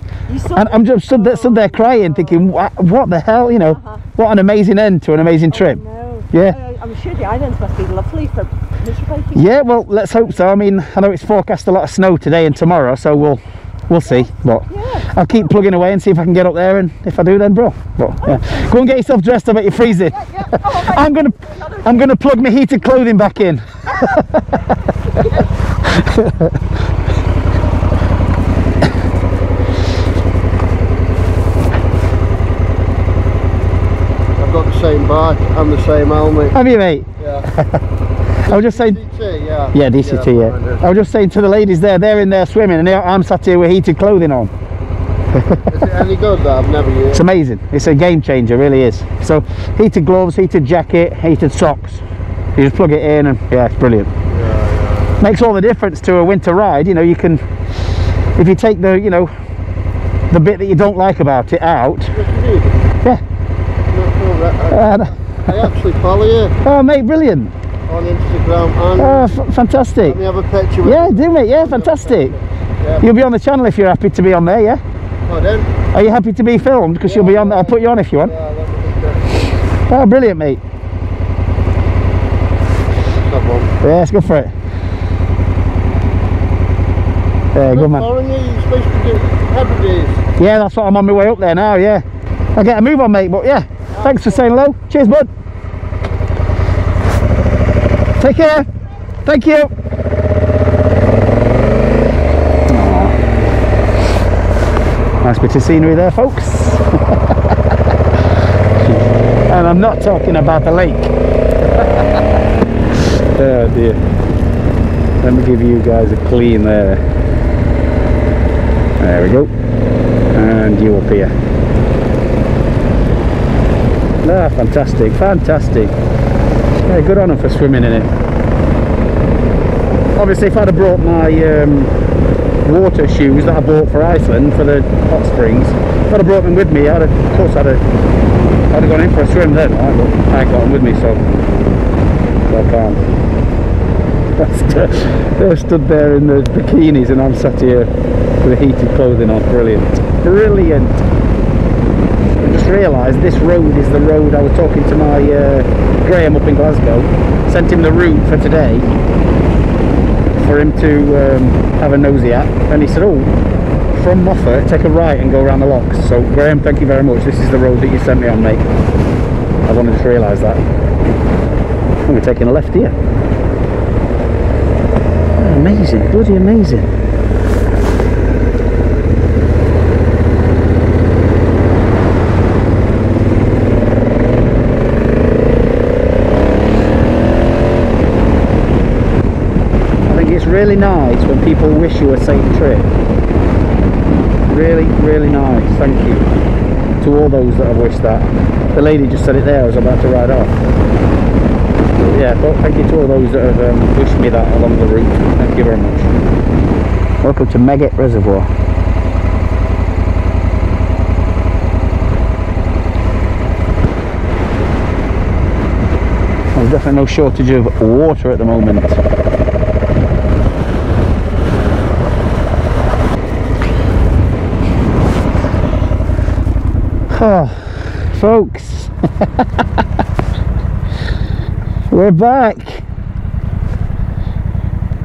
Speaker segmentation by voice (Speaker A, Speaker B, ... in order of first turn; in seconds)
Speaker A: 0.3-2.5, 3.7-4.0, 5.5-9.7, 14.2-15.1, 18.2-18.6, 20.1-22.1
Speaker B: 0.5-5.8, 6.3-6.6, 9.3-24.6, 25.1-26.6, 36.5-37.8, 38.5-39.0, 39.7-44.5, 45.3-45.7, 47.1-52.0, 52.6-54.1, 55.2-57.5, 58.4-59.3, 60.3-62.1, 64.7-65.1, 66.6-67.5, 69.0-70.2, 70.8-72.3, 73.0-74.8, 75.9-78.3, 79.9-80.6, 83.8-84.5, 87.5-88.1, 90.4-92.0, 92.6-95.3, 98.2-98.7, 99.2-99.7, 102.7-103.2, 105.2-107.2, 108.8-111.1, 113.3-114.0, 115.2-117.0, 119.0-119.5, 120.3-121.3, 124.2-125.9, 126.9-128.1, 130.2-131.9, 132.6-137.8, 138.7-141.2, 142.5-143.0, 144.4-147.9, 148.4-151.0, 152.4-158.9, 160.3-163.3, 163.9-168.6, 169.7-170.6, 172.1-172.9, 175.4-176.9, 190.1-192.9, 194.5-196.3, 197.0-200.6, 202.0-206.1, 207.2-208.5, 216.5-219.0, 227.1-229.4, 231.9-232.8
Speaker C: 34.4-36.6, 37.2-37.5, 38.4-40.9, 45.6-47.3, 54.3-55.2, 62.1-62.9, 63.9-66.6, 67.9-69.3, 70.1-73.1, 75.2-75.7, 77.0-79.5, 83.2-83.7, 87.7-90.2